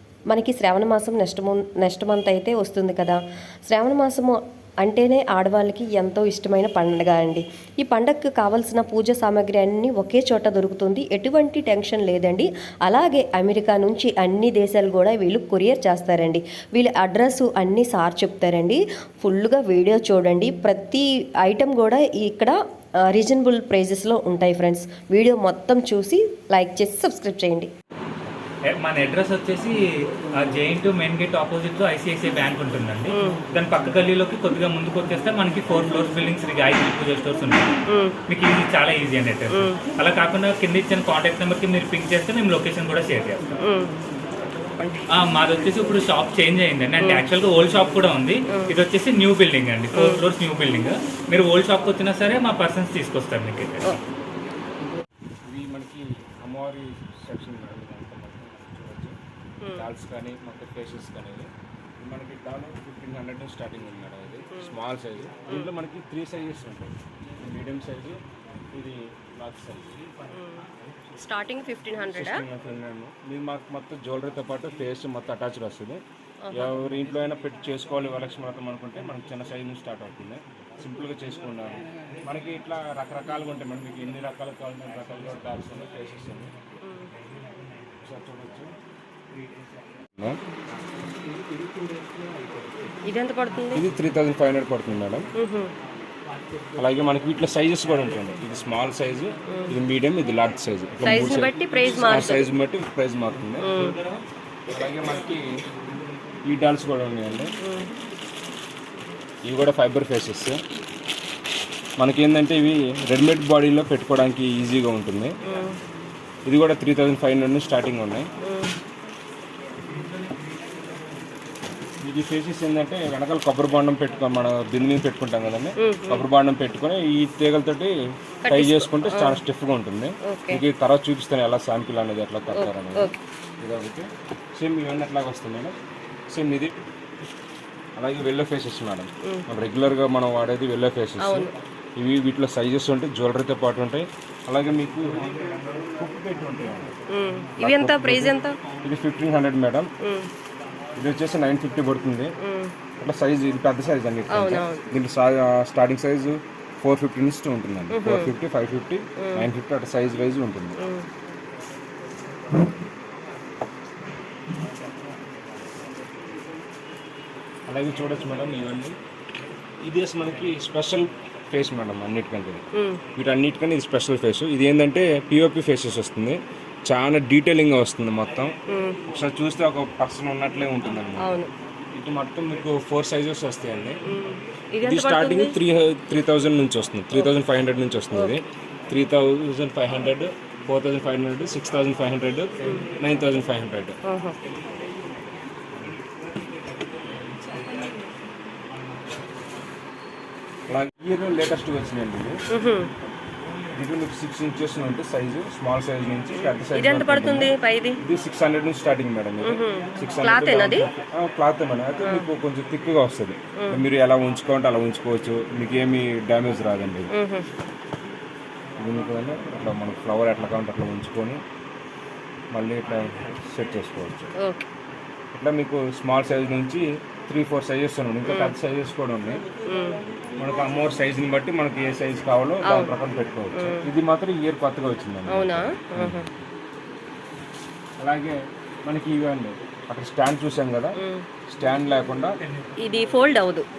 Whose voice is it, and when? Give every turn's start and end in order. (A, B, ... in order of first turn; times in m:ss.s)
0:00.3-0:27.7 A
0:28.7-0:37.7 B
0:33.1-0:33.4 A
0:37.9-0:38.2 A
0:38.3-0:43.6 B
0:39.5-0:39.8 A
0:43.6-0:44.0 A
0:45.1-0:54.0 B
0:47.0-0:47.2 A
0:48.5-0:48.7 A
0:49.9-0:50.2 A
0:55.5-0:59.2 C
0:59.6-0:59.9 A
0:59.7-1:01.5 C
1:02.0-1:08.2 C
1:04.5-1:04.8 A
1:08.7-1:10.1 C
1:10.3-1:12.4 A
1:12.1-1:16.0 C
1:16.4-1:16.8 A
1:16.5-1:26.5 C
1:26.8-1:27.1 A
1:28.0-1:28.7 C
1:33.1-1:33.8 A
1:33.7-1:35.3 C
1:35.4-1:35.7 A
1:36.8-1:43.8 C
1:39.5-1:39.8 A
1:41.0-1:42.5 A
1:43.6-1:44.0 A
1:44.7-1:45.4 C
1:46.5-1:47.5 C
1:47.6-1:47.9 A
1:49.4-1:50.6 C
1:52.0-1:55.3 C
1:55.4-1:55.8 A
1:56.4-1:58.3 C
1:58.4-1:58.7 A
2:02.0-2:07.9 C
2:05.8-2:06.2 A
2:08.4-2:09.4 A
2:08.5-2:15.7 C
2:10.2-2:10.6 A
2:12.5-2:13.2 A
2:16.3-2:16.7 C
2:18.0-2:26.9 C
2:21.2-2:21.5 A
2:27.1-2:28.6 A
2:27.6-2:29.9 C
2:30.0-2:30.3 A
2:31.0-2:32.3 C
2:32.4-2:32.7 A
2:33.0-2:40.8 C
2:34.3-2:34.9 A
2:37.9-2:38.3 A
2:39.2-2:39.5 A
2:40.8-2:41.1 A
2:47.7-2:49.0 C
2:49.8-2:52.6 C
2:52.8-2:53.0 A
2:53.2-2:58.5 C
2:58.7-2:59.0 A
2:59.1-3:01.4 C
3:01.2-3:01.5 A
3:02.0-3:04.0 C
3:04.0-3:05.6 A
3:04.8-3:14.0 C
3:12.6-3:12.9 A
3:14.0-3:14.3 A
3:20.7-3:22.4 C
3:22.5-3:22.9 A
3:23.7-3:37.1 C
3:26.7-3:28.0 A
3:29.4-3:30.9 A
3:32.0-3:32.2 A
3:33.6-3:33.8 A
3:37.1-3:37.4 A
3:38.8-3:41.4 C
3:42.5-3:44.3 C
3:44.4-3:44.7 A
3:45.3-3:49.4 C
3:48.3-3:48.5 A
3:49.7-3:50.0 A
3:50.4-3:56.2 C
3:52.7-3:53.0 A
3:53.5-3:53.9 A
3:55.3-3:56.3 A
3:58.0-4:01.0 C
4:01.0-4:01.3 A
4:01.5-4:02.3 C
4:02.8-4:03.6 A